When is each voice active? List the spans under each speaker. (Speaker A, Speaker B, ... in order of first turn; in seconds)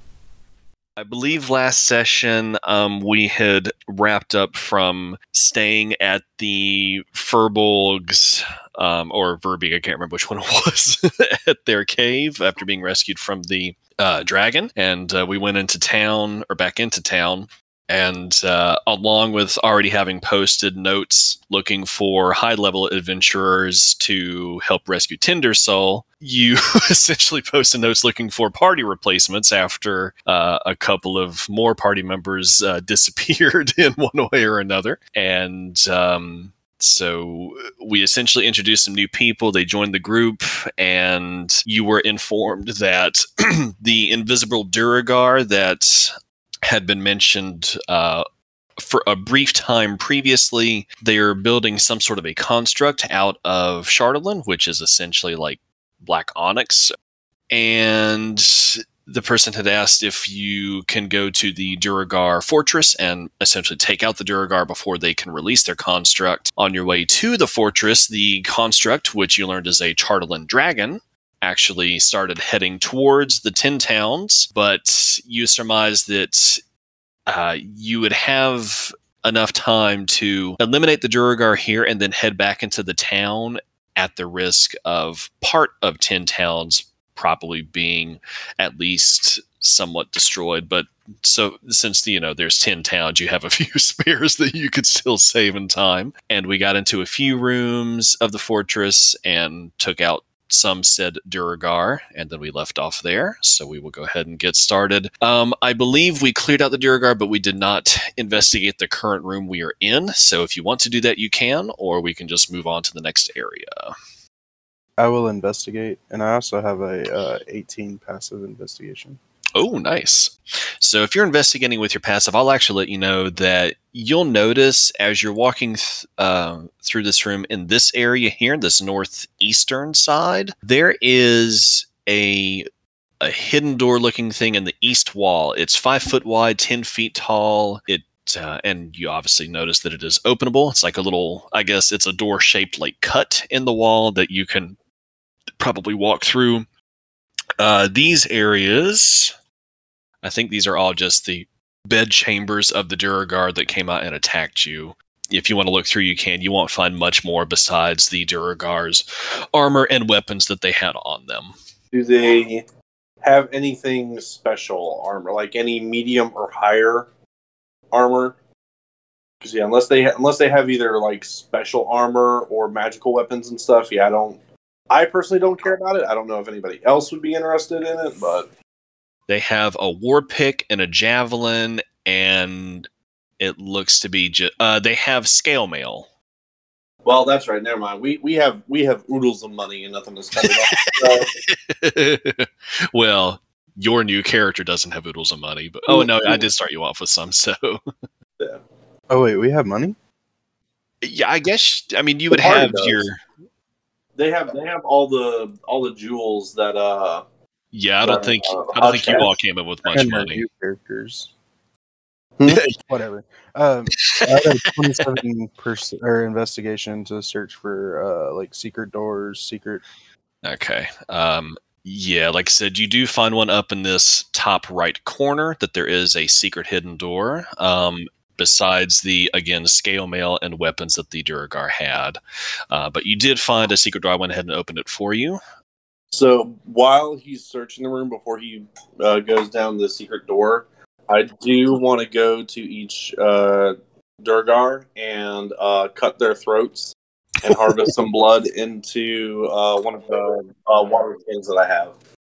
Speaker A: 1.0-46.1, 46.6-48.2, 48.8-56.9, 57.5-76.6, 77.3-113.9, 119.5-132.7, 133.2-144.8, 145.6-146.7, 147.6-149.3, 150.2-161.5, 179.3-182.9, 183.4-186.1, 190.4-197.8, 201.0-203.2, 207.7-210.4, 212.4-212.7, 213.9-215.1, 220.4-232.2, 232.7-235.4
Speaker B: 115.0-119.2, 199.1-199.9, 209.9-211.3, 212.8-219.8
Speaker C: 161.9-162.6, 163.2-167.1, 167.9-168.3, 169.4-174.4, 174.9-178.5, 187.0-191.3, 202.3-203.0, 204.2-207.2, 208.0-209.3, 236.1-251.9